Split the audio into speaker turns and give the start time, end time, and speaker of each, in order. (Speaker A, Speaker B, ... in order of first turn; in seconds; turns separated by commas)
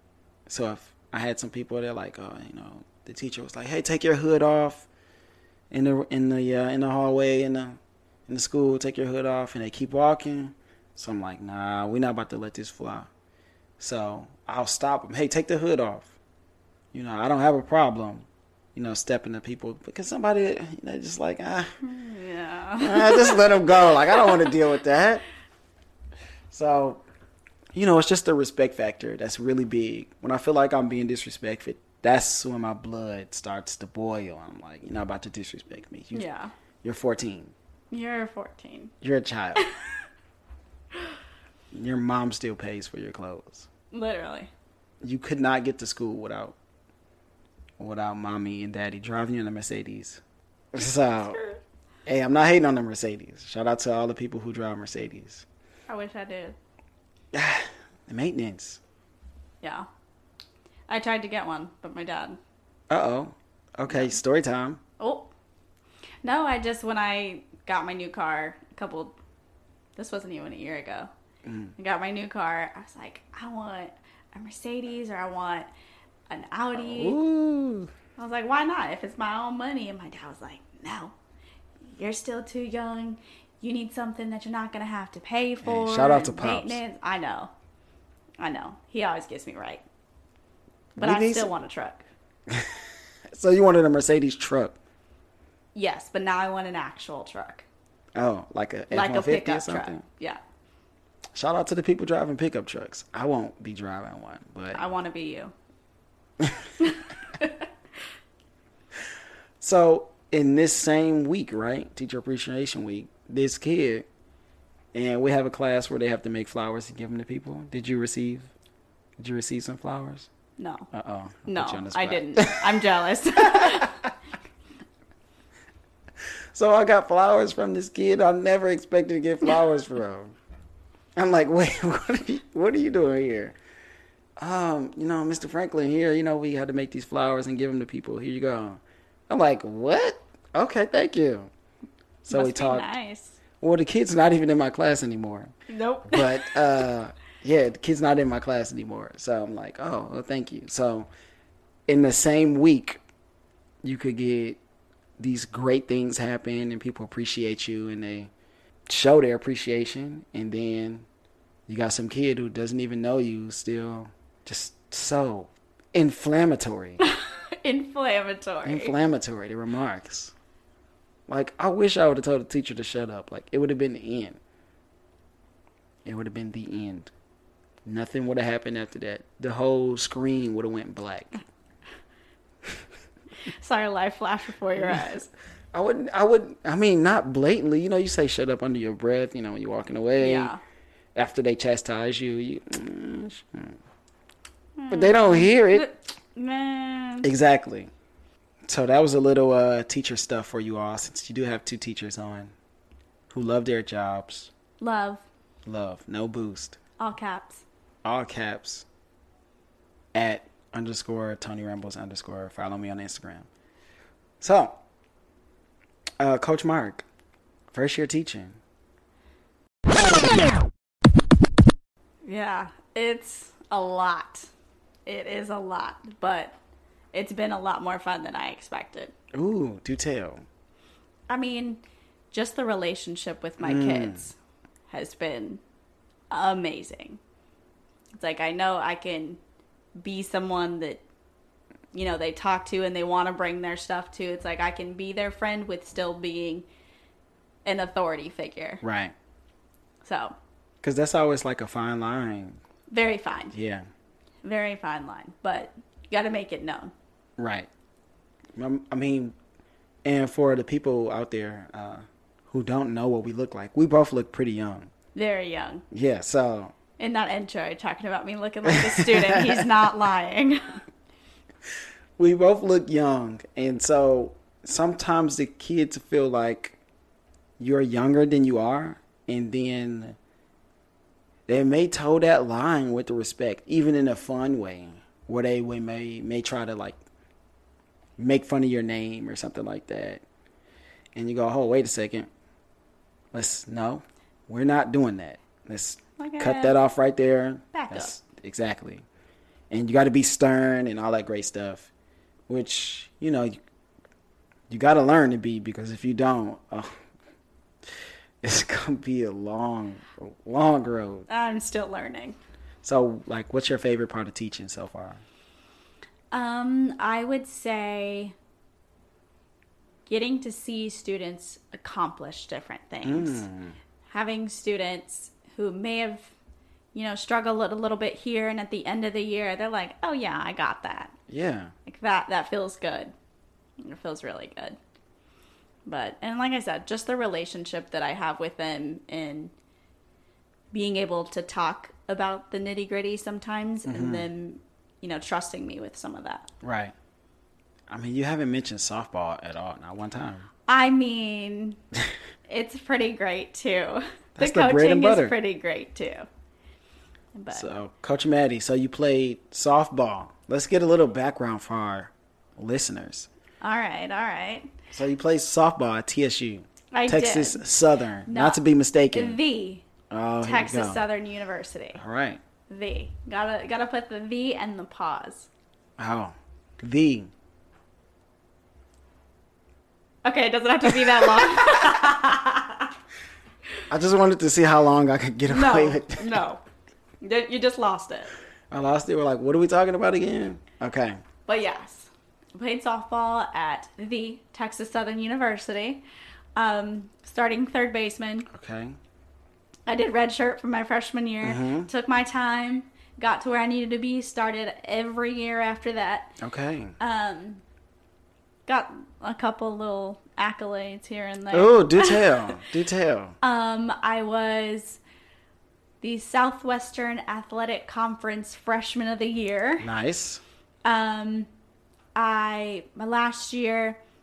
Speaker A: 0.5-4.9, Speaker A: 5.7-13.1, Speaker A: 13.8-16.1, Speaker A: 16.9-21.8, Speaker B: 21.8-24.5, Speaker A: 22.8-25.2, Speaker A: 26.5-27.0, Speaker A: 27.7-36.3, Speaker B: 36.1-36.5, Speaker A: 36.8-37.5, Speaker B: 37.9-38.9, Speaker A: 39.0-39.6, Speaker B: 39.6-40.0, Speaker A: 41.7-43.7, Speaker B: 43.9-44.5, Speaker A: 45.0-46.6, Speaker A: 47.8-50.2, Speaker A: 50.7-51.4, Speaker B: 51.2-51.6, Speaker A: 52.0-55.5, Speaker B: 55.9-56.6, Speaker A: 57.3-58.8, Speaker B: 59.6-59.9, Speaker B: 60.9-62.4, Speaker A: 62.9-64.8, Speaker B: 63.9-64.1, Speaker B: 65.0-65.3, Speaker B: 66.2-69.2, Speaker B: 70.0-71.1, Speaker A: 71.5-71.7, Speaker B: 71.8-75.7, Speaker B: 76.3-77.2, Speaker A: 76.8-77.9, Speaker B: 78.2-81.2, Speaker B: 81.9-87.5, Speaker A: 85.6-86.8, Speaker B: 88.4-89.8, Speaker A: 91.0-91.5, Speaker B: 91.0-92.1, Speaker A: 92.5-94.8, Speaker B: 95.8-97.7, Speaker A: 98.2-100.0, Speaker B: 98.9-100.4, Speaker A: 101.3-104.8, Speaker B: 104.7-105.5, Speaker A: 106.4-106.7, Speaker B: 106.8-107.7, Speaker A: 109.6-114.1, Speaker A: 114.9-118.5, Speaker A: 119.2-120.3, Speaker B: 120.6-120.9, Speaker A: 120.9-122.9, Speaker B: 121.5-124.0, Speaker A: 123.5-124.1, Speaker A: 126.5-130.4, Speaker A: 131.2-133.6, Speaker A: 134.4-141.5, Speaker A: 142.2-142.9, Speaker B: 142.3-143.4, Speaker A: 143.6-145.5, Speaker B: 145.7-146.6, Speaker A: 146.1-151.1, Speaker A: 151.9-153.0, Speaker A: 153.8-154.6, Speaker A: 155.2-158.3, Speaker A: 158.9-161.1, Speaker A: 161.7-167.0, Speaker B: 167.0-168.9, Speaker A: 168.6-170.3, Speaker A: 171.3-174.4, Speaker A: 176.1-177.1, Speaker A: 177.8-181.4, Speaker B: 183.4-185.3, Speaker A: 184.8-185.1, Speaker A: 185.7-190.6, Speaker B: 190.2-190.6, Speaker A: 191.2-193.8, Speaker B: 194.8-197.3, Speaker A: 194.9-195.9, Speaker A: 197.2-197.9, Speaker A: 198.7-202.5, Speaker A: 203.3-204.5, Speaker B: 204.8-205.2, Speaker A: 205.7-206.8, Speaker B: 207.0-207.7, Speaker A: 208.0-208.9, Speaker A: 210.1-213.5, Speaker A: 214.4-214.8, Speaker A: 216.2-217.1, Speaker A: 217.7-218.6, Speaker B: 222.2-224.5, Speaker B: 225.1-226.6, Speaker B: 227.1-229.1, Speaker A: 229.3-230.4, Speaker B: 231.3-231.8, Speaker B: 232.3-234.4, Speaker A: 233.6-234.3, Speaker B: 234.9-235.6, Speaker B: 236.3-237.2, Speaker B: 238.1-239.4, Speaker B: 240.0-241.0, Speaker B: 241.9-246.7, Speaker B: 247.7-248.8, Speaker A: 248.8-249.1, Speaker B: 250.0-250.4, Speaker A: 250.8-252.6, Speaker B: 252.9-253.6, Speaker A: 253.5-253.9, Speaker B: 254.4-256.9, Speaker A: 257.4-257.7, Speaker A: 258.6-259.4, Speaker A: 260.1-264.9, Speaker B: 265.1-265.8, Speaker A: 265.9-266.8, Speaker B: 267.0-270.8, Speaker A: 268.7-269.7, Speaker A: 272.2-276.8, Speaker A: 277.6-280.2, Speaker A: 281.5-287.0, Speaker A: 288.2-290.2, Speaker A: 291.1-292.3, Speaker A: 293.3-299.1, Speaker B: 296.2-296.8, Speaker B: 297.7-298.1, Speaker A: 299.7-301.9, Speaker A: 302.5-303.6, Speaker A: 304.7-307.0, Speaker A: 308.4-311.3, Speaker B: 311.3-312.4, Speaker A: 312.8-315.2, Speaker B: 316.3-318.3, Speaker B: 320.1-323.5, Speaker A: 323.1-323.8, Speaker B: 324.1-326.3, Speaker B: 326.9-331.1, Speaker A: 331.3-331.7, Speaker B: 331.9-333.1, Speaker B: 333.8-334.8, Speaker B: 335.9-339.5, Speaker B: 340.7-346.5, Speaker A: 343.9-344.3, Speaker A: 346.6-346.9, Speaker A: 347.9-350.5, Speaker B: 350.7-351.8, Speaker B: 352.5-356.3, Speaker A: 354.4-355.4, Speaker B: 357.4-357.8, Speaker A: 357.5-363.3, Speaker B: 363.6-364.7, Speaker A: 364.9-369.4, Speaker B: 366.9-367.7, Speaker B: 368.3-368.6, Speaker B: 369.1-369.9, Speaker A: 370.1-371.0, Speaker B: 370.4-372.0, Speaker A: 372.0-372.4, Speaker B: 372.7-375.5, Speaker A: 376.0-377.3, Speaker B: 380.2-382.9, Speaker A: 380.9-382.0, Speaker A: 383.9-386.3, Speaker B: 385.5-386.6, Speaker B: 387.2-388.3, Speaker A: 388.7-391.2, Speaker B: 391.5-396.0, Speaker B: 396.6-398.5, Speaker A: 398.5-399.0, Speaker B: 399.9-406.3, Speaker A: 401.4-401.9, Speaker A: 406.4-407.0, Speaker B: 407.0-407.6, Speaker B: 408.7-412.6, Speaker A: 411.5-413.4, Speaker B: 413.4-415.0, Speaker B: 416.0-419.9, Speaker A: 419.8-420.4, Speaker B: 420.9-421.5, Speaker B: 422.1-424.0